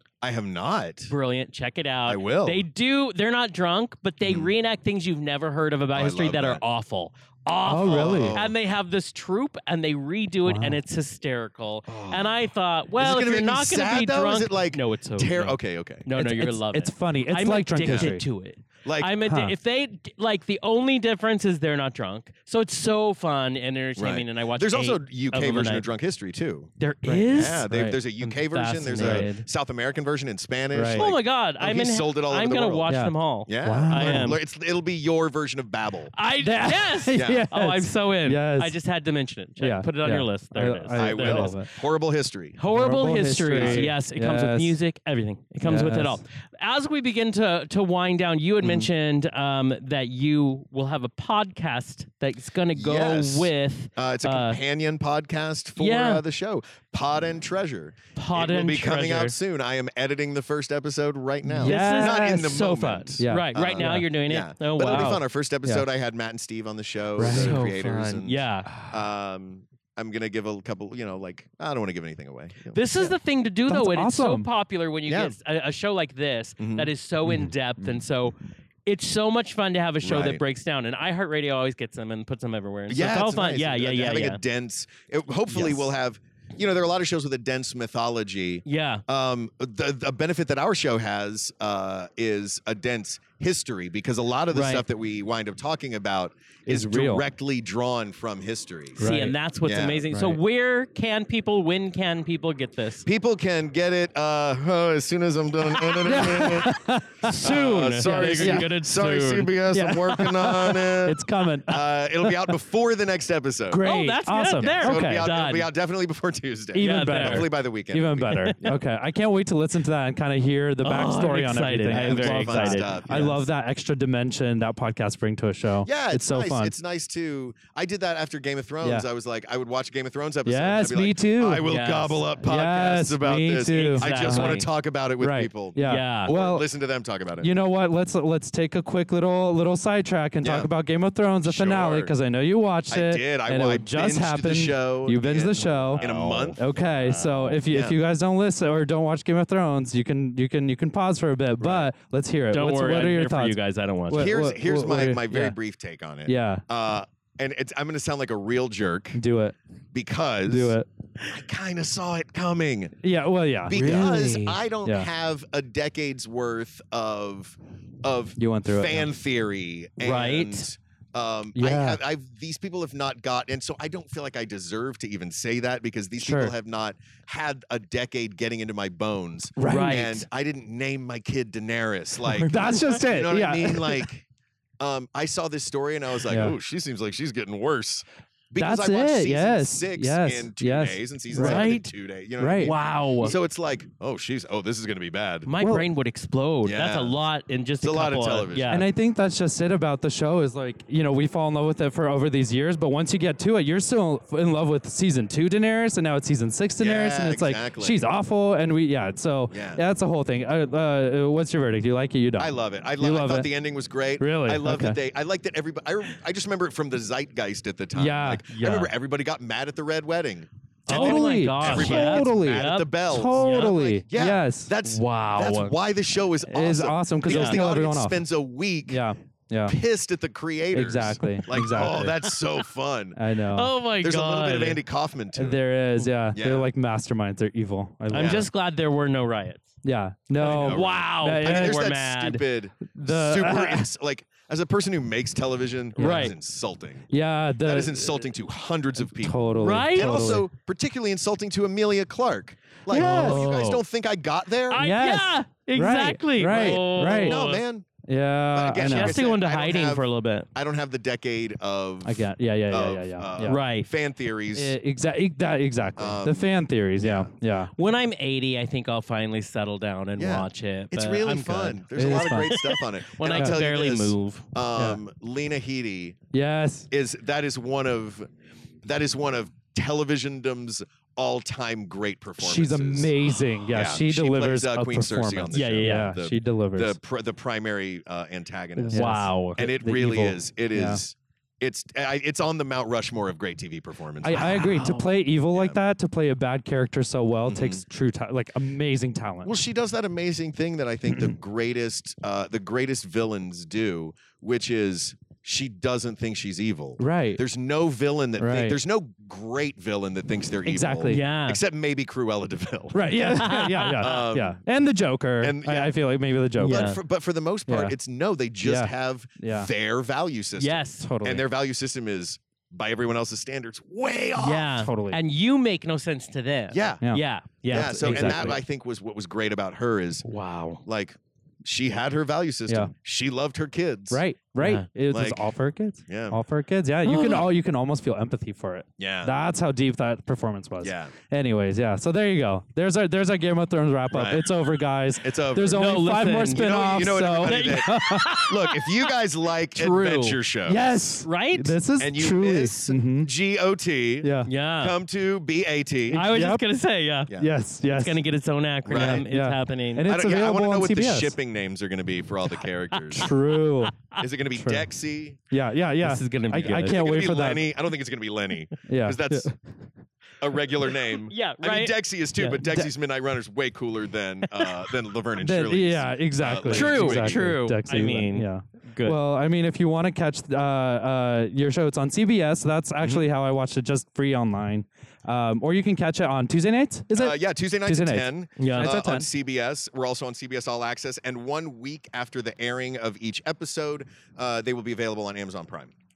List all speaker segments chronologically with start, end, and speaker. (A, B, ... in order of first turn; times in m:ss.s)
0:00.2-0:01.1 A
0:01.1-0:25.9 B
0:02.1-0:02.6 A
0:04.2-0:04.5 A
0:05.9-0:06.6 A
0:07.7-0:08.4 C
0:07.8-0:08.5 A
0:10.5-0:10.8 C
0:11.9-0:12.4 A
0:13.0-0:16.1 A
0:16.2-0:18.2 C
0:17.8-0:18.1 A
0:18.8-0:19.2 A
0:19.2-0:19.5 C
0:24.0-0:26.7 A
0:26.8-0:29.5 B
0:27.0-0:28.0 C
0:27.3-0:32.9 A
0:29.0-0:29.3 C
0:30.7-0:31.1 C
0:30.9-0:34.4 B
0:32.9-0:34.3 C
0:33.5-0:36.1 A
0:36.1-0:41.6 B
0:36.4-0:38.8 C
0:37.1-0:37.5 A
0:39.6-0:41.7 C
0:41.0-0:42.6 A
0:42.6-0:54.6 B
0:42.7-0:44.8 C
0:43.5-0:43.9 A
0:45.6-0:46.2 C
0:48.6-0:48.9 A
0:52.7-1:13.1 A
0:55.8-0:56.2 B
0:58.2-0:59.4 B
1:01.4-1:02.3 C
1:01.6-1:05.2 B
1:03.2-1:04.1 C
1:04.8-1:05.8 C
1:07.2-1:07.7 C
1:07.2-1:08.7 B
1:12.7-1:24.4 B
1:13.7-1:14.5 C
1:15.1-1:15.4 A
1:16.6-1:16.9 A
1:20.0-1:20.4 A
1:22.9-1:39.1 A
1:25.5-1:25.9 B
1:28.6-1:29.0 B
1:34.5-1:34.8 B
1:36.7-1:37.2 C
1:39.0-1:43.1 B
1:39.0-1:39.4 C
1:39.6-1:40.1 A
1:40.1-1:40.4 C
1:43.0-1:46.8 A
1:45.9-1:47.5 C
1:47.2-1:49.6 B
1:47.3-1:53.9 A
1:48.0-1:48.7 C
1:49.7-1:52.5 C
1:53.7-1:55.3 C
1:53.8-1:55.7 B
1:54.6-1:58.7 A
1:56.7-2:06.7 C
1:56.8-1:57.5 B
2:00.8-2:03.0 B
2:01.9-2:03.5 A
2:05.8-2:17.5 A
2:10.5-2:11.7 C
2:11.6-2:12.3 B
2:12.4-2:14.6 C
2:13.7-2:14.7 B
2:15.2-2:16.6 C
2:15.8-2:16.3 B
2:17.4-2:33.6 C
2:20.4-2:20.7 A
2:21.4-2:22.2 A
2:22.9-2:26.6 A
2:25.8-2:27.6 B
2:27.7-2:28.0 A
2:31.6-2:31.9 A
2:32.5-2:34.3 B
2:34.1-2:35.6 C
2:34.1-2:39.2 A
2:36.3-2:36.6 C
2:39.2-2:39.6 C
2:39.9-2:43.0 A
2:40.5-2:40.9 C
2:43.0-2:44.2 C
2:43.7-3:04.2 A
2:43.7-2:44.6 B
2:48.4-2:49.1 C
2:50.0-2:50.6 B
2:51.6-2:52.0 C
2:56.2-2:56.5 C
2:59.6-3:00.1 C
2:59.6-3:00.2 B
3:02.3-3:04.1 C
3:04.8-3:15.5 A
3:06.3-3:06.5 C
3:08.6-3:11.7 C
3:11.3-3:11.9 B
3:12.4-3:12.7 C
3:12.6-3:13.4 B
3:15.5-3:18.9 B
3:15.6-3:15.9 C
3:16.6-3:17.2 A
3:17.8-3:18.8 A
3:18.7-3:33.5 C
3:26.8-3:28.1 A
3:29.5-3:29.8 A
3:32.4-3:49.0 A
3:34.2-3:35.0 C
3:38.0-3:38.4 C
3:38.5-3:38.9 B
3:40.9-3:43.7 B
3:40.9-3:44.7 C
3:44.8-3:45.8 B
3:46.5-3:48.2 C
3:47.3-3:47.6 B
3:48.9-3:49.8 C
3:49.7-3:53.2 A
3:50.7-3:52.2 C
3:53.2-3:53.7 C
3:53.5-3:54.8 B
3:54.0-3:55.6 A
3:55.3-3:58.5 C
3:56.3-3:56.7 A
3:58.1-3:59.7 B
3:58.1-3:58.5 A
3:59.8-4:01.9 C
4:00.4-4:07.1 A
4:00.4-4:02.4 B
4:02.9-4:03.9 C
4:06.0-4:06.3 B
4:06.0-4:06.3 C
4:07.1-4:08.2 C
4:07.6-4:14.8 A
4:09.1-4:10.5 C
4:09.6-4:10.4 B
4:12.9-4:13.8 B
4:12.9-4:13.5 C
4:14.7-4:17.6 B
4:14.7-4:17.5 C
4:16.4-4:17.9 A
4:18.1-4:19.2 C
4:18.5-4:24.8 A
4:18.8-4:20.5 B
4:22.0-4:23.6 C
4:23.4-4:23.9 B
4:24.6-4:27.7 C
4:26.0-4:27.3 A
4:27.8-4:31.8 B
4:30.2-4:36.2 A
4:31.8-4:32.6 C
4:32.3-4:34.5 B
4:33.3-4:33.6 C
4:36.3-4:36.9 C
4:36.9-4:38.3 A
4:38.8-4:43.1 A
4:42.4-4:47.0 C
4:43.7-4:54.9 A
4:45.5-4:46.1 B
4:48.8-4:49.7 B
4:48.9-4:51.0 C
4:54.2-4:59.6 C
4:54.4-4:55.0 B
4:55.5-4:55.8 A
4:57.5-4:57.8 A
4:59.4-5:13.2 A
5:07.0-5:07.4 C
5:08.4-5:08.8 C
5:10.7-5:11.3 C
5:11.0-5:11.6 B
5:12.9-5:16.9 C
5:13.3-5:14.2 B
5:13.9-5:14.6 A
5:15.4-5:16.0 A
5:16.6-5:17.0 B
5:16.7-5:24.8 A
5:17.7-5:18.0 C
5:18.6-5:19.7 C
5:20.6-5:21.1 B
5:21.0-5:21.4 C
5:24.4-5:28.6 B
5:24.8-5:25.2 C
5:26.7-5:27.0 A
5:27.0-5:28.6 C
5:27.7-5:30.3 A
5:30.2-5:30.8 B
5:30.8-5:34.2 A
5:34.1-5:48.5 C
5:34.6-5:34.9 B
5:35.1-5:35.5 A
5:36.1-5:36.4 A
5:37.0-5:37.4 B
5:39.0-5:39.4 A
5:40.8-5:41.1 A
5:44.1-5:44.5 A
5:45.1-5:46.0 A
5:45.7-5:46.7 B
5:46.5-5:51.2 A
5:47.4-5:49.1 B
5:49.7-5:50.4 B
5:50.7-5:53.3 C
5:51.2-5:51.8 B
5:52.0-5:56.3 A
5:54.2-5:54.5 C
5:54.4-5:55.0 B
5:56.1-6:00.1 B
5:56.1-5:56.6 C
5:57.3-5:58.2 C
5:58.8-5:59.3 A
5:59.0-6:01.3 C
6:00.1-6:03.3 A
6:03.0-6:03.4 B
6:03.2-6:04.0 C
6:04.2-6:05.4 A
6:04.5-6:04.9 C
6:05.5-6:07.6 C
6:06.0-6:07.0 B
6:06.6-6:09.5 A
6:08.9-6:09.6 C
6:10.4-6:17.5 A
6:11.2-6:12.6 B
6:15.4-6:29.3 C
6:16.6-6:19.2 B
6:27.1-6:35.9 A
6:28.6-6:29.0 B